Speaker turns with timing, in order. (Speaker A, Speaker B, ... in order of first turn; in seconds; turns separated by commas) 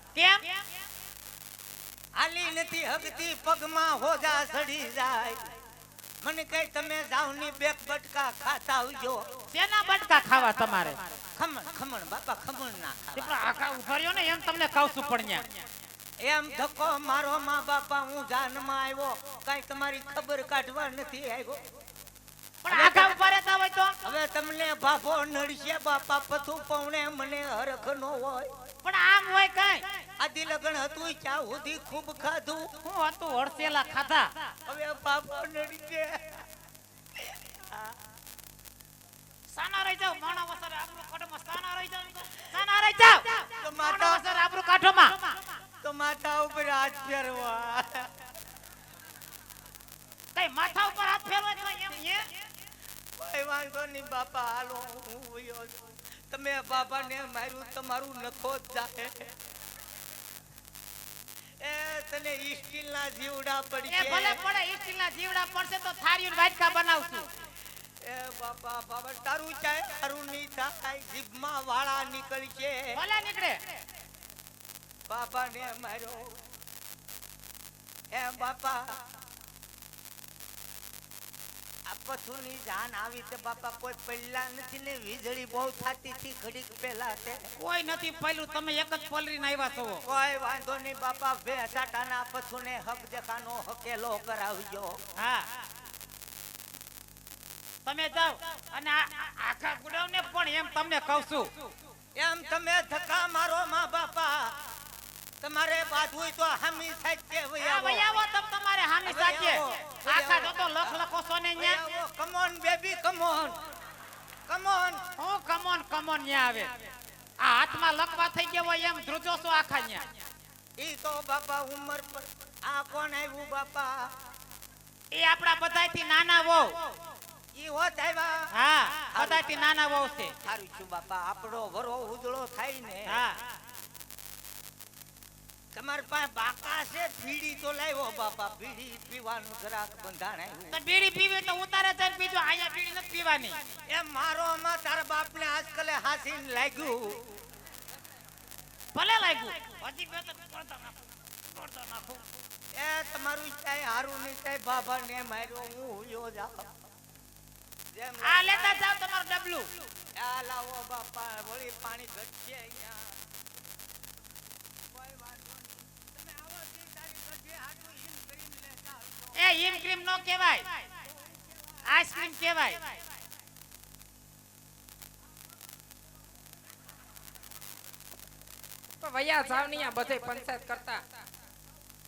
Speaker A: 0.1-0.6, Speaker B: 2.1-5.4, Speaker B: 6.2-9.3, Speaker A: 9.5-11.0, Speaker B: 11.3-13.4, Speaker A: 13.1-15.6, Speaker B: 16.2-21.6, Speaker A: 22.6-24.0, Speaker B: 22.7-23.2, Speaker B: 24.0-28.5, Speaker A: 28.8-29.8, Speaker B: 30.2-32.7, Speaker A: 32.8-34.3, Speaker B: 34.6-36.4, Speaker B: 37.2-37.9, Speaker A: 39.5-45.4, Speaker B: 43.6-44.3, Speaker B: 45.8-48.1, Speaker A: 50.3-52.3, Speaker B: 53.2-59.3, Speaker B: 61.6-64.4, Speaker A: 63.9-67.3, Speaker B: 68.0-73.0, Speaker A: 72.9-73.6, Speaker B: 75.1-76.4, Speaker B: 78.1-79.0, Speaker B: 81.9-87.5, Speaker A: 87.6-90.0, Speaker B: 90.0-95.0, Speaker A: 95.2-95.5, Speaker A: 97.8-101.5, Speaker B: 102.1-104.5, Speaker B: 105.4-108.2, Speaker A: 107.6-111.9, Speaker B: 109.0-113.6, Speaker B: 114.5-115.1, Speaker A: 115.2-116.7, Speaker A: 117.4-120.1, Speaker B: 120.8-124.1, Speaker A: 125.1-126.8, Speaker B: 127.5-128.5, Speaker A: 128.5-130.3, Speaker B: 129.1-129.6, Speaker B: 130.4-133.2, Speaker A: 133.1-133.4, Speaker B: 135.7-140.8, Speaker A: 140.7-143.6, Speaker B: 143.9-147.2, Speaker A: 148.9-152.2, Speaker B: 152.7-156.7, Speaker B: 157.9-158.9, Speaker A: 158.2-159.8, Speaker B: 160.1-163.1, Speaker B: 165.1-169.2, Speaker A: 169.3-170.7, Speaker A: 171.8-172.9, Speaker C: 179.0-181.0